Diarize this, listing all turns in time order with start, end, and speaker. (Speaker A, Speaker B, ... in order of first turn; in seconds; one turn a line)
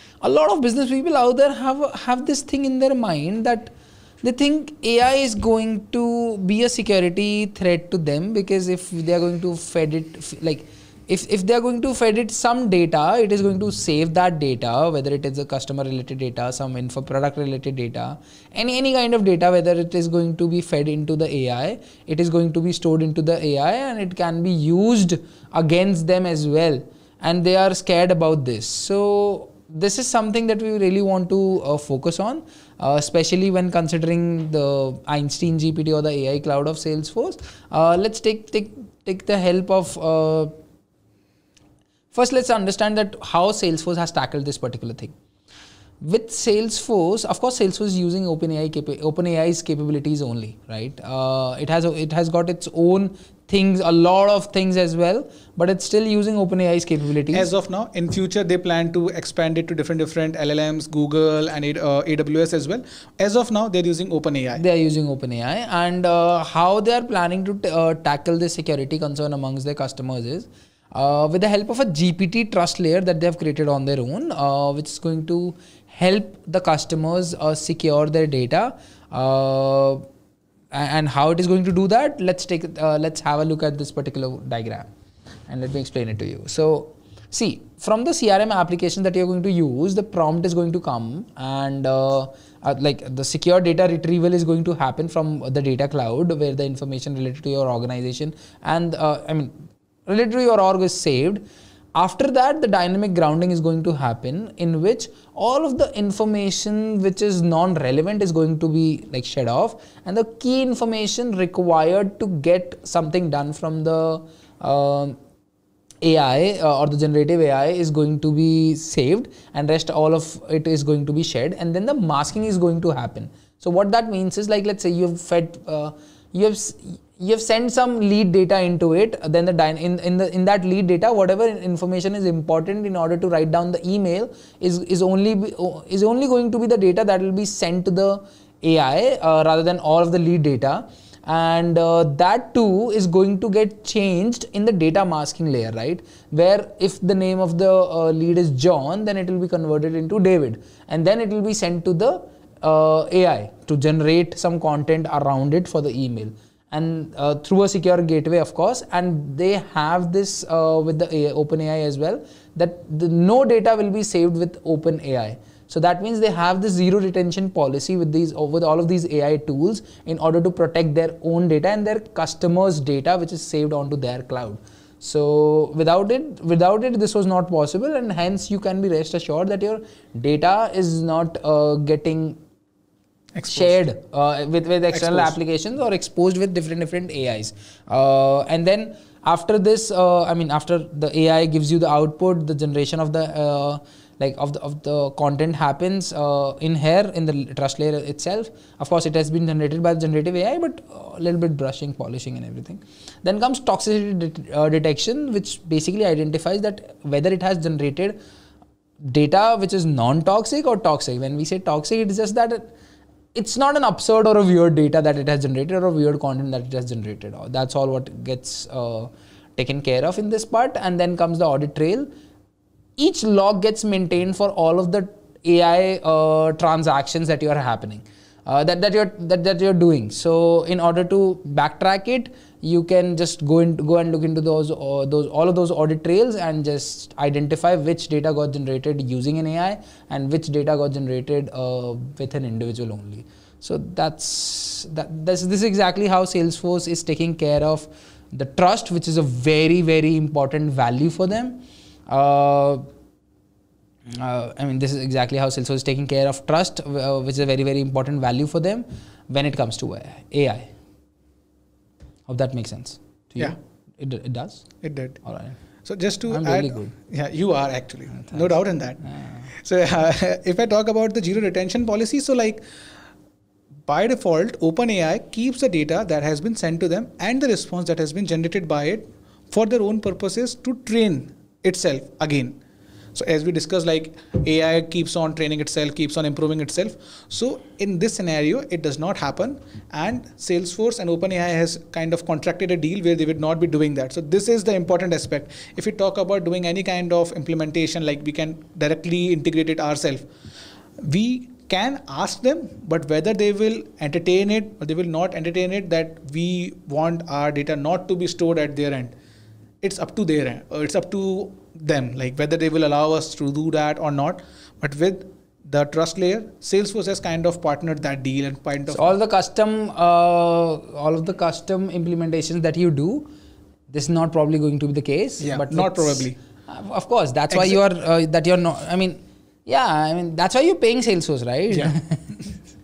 Speaker A: 0.2-3.7
Speaker A: 4.2-40.5
Speaker A: 42.1-45.1
Speaker A: 46.0-57.5
Speaker B: 57.3-64.6
Speaker A: 64.6-80.0
Speaker A: 80.7-84.9
Speaker A: 85.5-99.5
Speaker A: 100.1-101.4
Speaker A: 102.0-115.2
Speaker A: 116.0-182.4
Speaker B: 183.3-183.8
Speaker A: 183.5-208.2
Speaker B: 184.9-185.3
Speaker A: 209.0-212.7
Speaker A: 213.3-222.1
Speaker A: 223.0-252.8
Speaker A: 254.1-260.7
Speaker A: 262.3-264.7
Speaker B: 264.8-265.2
Speaker A: 265.2-265.6
Speaker B: 265.8-272.6
Speaker A: 266.3-266.9
Speaker A: 268.2-268.5
Speaker A: 269.1-269.5
Speaker B: 273.9-282.6
Speaker B: 283.1-300.2
Speaker B: 301.0-309.1
Speaker B: 309.8-319.1
Speaker A: 318.9-323.3
Speaker A: 323.9-332.4
Speaker B: 325.4-326.4
Speaker B: 327.5-327.8